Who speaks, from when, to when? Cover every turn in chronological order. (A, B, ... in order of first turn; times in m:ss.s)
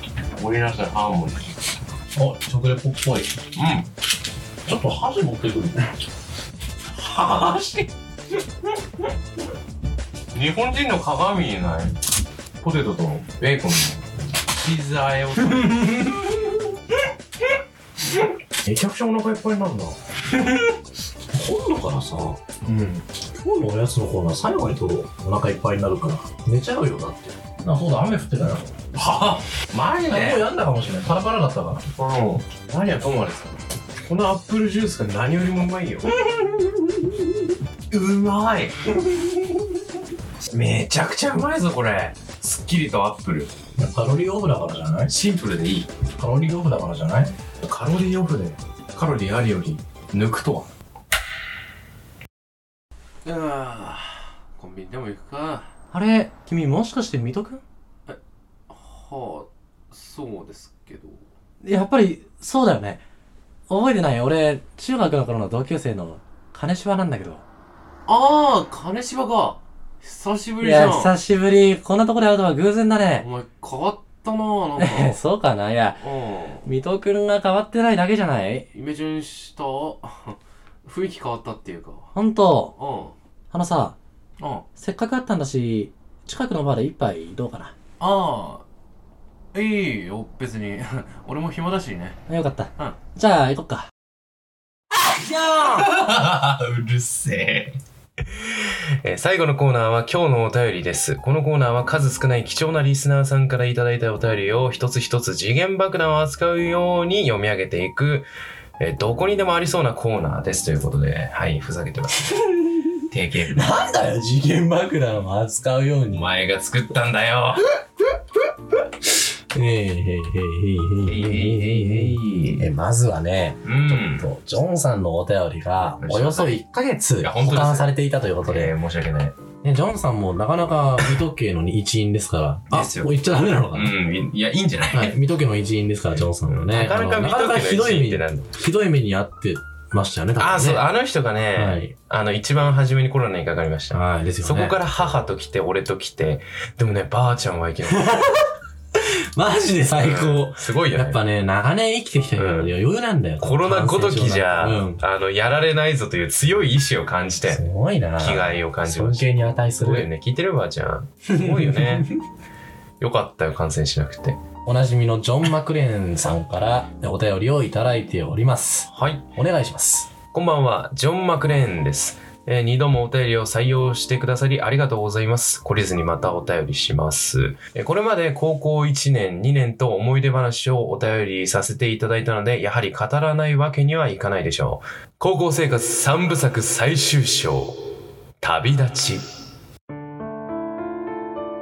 0:00.3-0:01.5 A
0:02.1-0:03.3 B
0:03.5-0:03.9 A
0:04.6-0:05.9 B
0:07.0-0:07.9 A
0:10.3-0:12.0 A
0:12.6-0:16.3 A
0:18.1-0:20.0 A
0:21.3-0:22.4 B
0:22.6-0:23.0 A
0:23.3-0:28.9 B
0:28.9-0:30.4 A
0:30.0-0:31.8 B
0:31.9-0:36.1 A
0:36.4-0:36.7 B
0:37.9-0:38.9 A
0:40.4-0:43.5 A
0:43.8-0:45.1 B
0:45.1-0:45.9 A
0:46.2-0:47.3 B
0:47.6-0:50.7 A
0:53.2-0:55.7 A
0:55.9-0:57.6 C
0:58.7-1:01.2 A
1:01.6-1:03.0 C
1:03.7-1:07.4 C
1:08.1-1:11.1 A
1:10.6-1:13.3 C
1:13.2-1:15.2 A
1:14.8-1:16.1 C
1:16.0-1:16.6 A
1:16.6-1:18.7 C
1:18.7-1:22.1 A
1:22.1-1:22.7 C
1:22.8-1:23.1 A
1:23.5-1:24.0 C
1:24.4-1:24.6 A
1:24.8-1:27.7 C
1:28.0-1:28.6 A
1:29.5-1:32.2 A
1:32.3-1:33.9 C
1:35.4-1:48.3 A
1:48.8-1:53.7 A
1:53.5-1:56.2 B
1:56.1-1:57.7 A
1:59.5-2:08.7 B
2:01.0-2:02.7 A
2:03.6-2:04.3 A
2:06.0-2:06.6 A
2:07.2-2:07.9 A
2:08.4-2:09.4 A
2:09.6-2:13.9 B
2:12.7-2:15.2 A
2:14.9-2:20.8 B
2:16.5-2:18.5 A
2:20.4-2:28.2 A
2:21.5-2:21.9 B
2:23.9-2:24.8 B
2:27.9-2:35.0 B
2:29.9-2:31.2 A
2:32.3-2:32.7 A
2:33.4-2:37.6 A
2:37.5-2:40.1 B
2:38.2-2:42.1 A
2:41.3-2:42.1 B
2:43.0-2:44.4 A
2:44.6-2:50.1 B
2:48.9-2:49.2 A
2:50.3-3:07.9 A
3:08.4-3:09.3 A